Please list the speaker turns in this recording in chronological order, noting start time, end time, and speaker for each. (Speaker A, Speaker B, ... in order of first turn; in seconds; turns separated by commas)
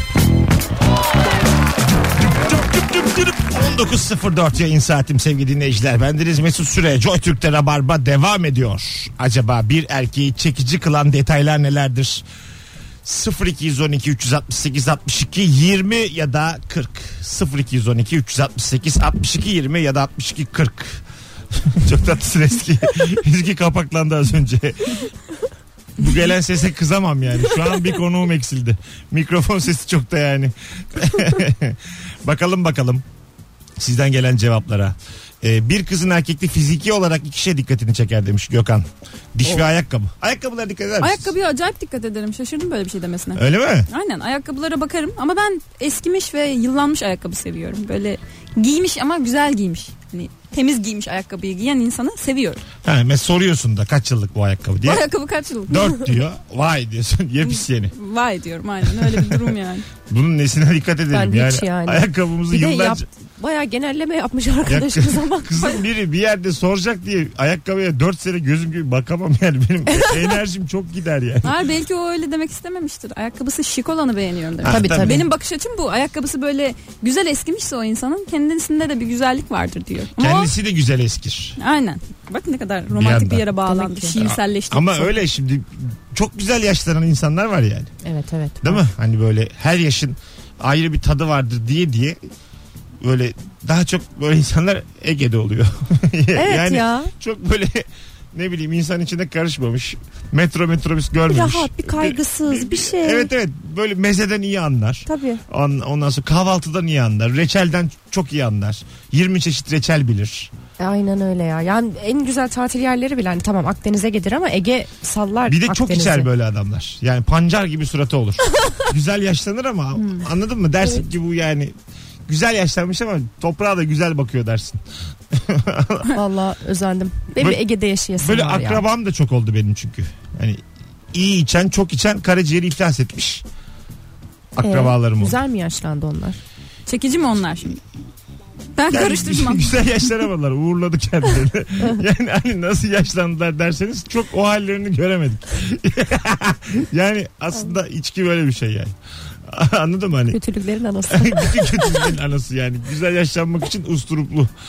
Speaker A: 2.4-12.2, Speaker A: 13.0-25.1, Speaker A: 26.0-33.0, Speaker A: 33.8-41.3, Speaker B: 41.0-52.6, Speaker A: 43.4-43.9, Speaker A: 52.8-55.1, Speaker B: 54.8-56.2, Speaker A: 55.7-57.9, Speaker B: 57.4-59.9, Speaker A: 58.9-59.5, Speaker A: 60.0-63.0, Speaker C: 61.1-65.7, Speaker A: 64.7-71.6, Speaker C: 69.9-70.2, Speaker B: 71.4-80.5, Speaker A: 74.6-75.2, Speaker C: 74.7-75.2, Speaker A: 80.2-81.6, Speaker B: 81.6-85.2, Speaker A: 82.9-83.5, Speaker C: 83.6-84.3, Speaker A: 84.2-87.9, Speaker C: 88.0-88.8, Speaker A: 88.6-92.2, Speaker A: 93.0-110.5, Speaker C: 96.3-97.1, Speaker C: 101.3-103.3, Speaker C: 105.0-105.4, Speaker C: 110.8-116.3, Speaker A: 115.5-121.7, Speaker B: 120.0-120.2, Speaker A: 122.3-126.2, Speaker C: 126.1-128.8, Speaker A: 128.2-133.4, Speaker A: 134.5-135.4, Speaker C: 134.6-136.4, Speaker B: 136.9-137.8, Speaker B: 138.8-139.7, Speaker A: 138.9-148.9, Speaker A: 149.4-150.4, Speaker C: 150.3-152.1, Speaker A: 151.1-154.5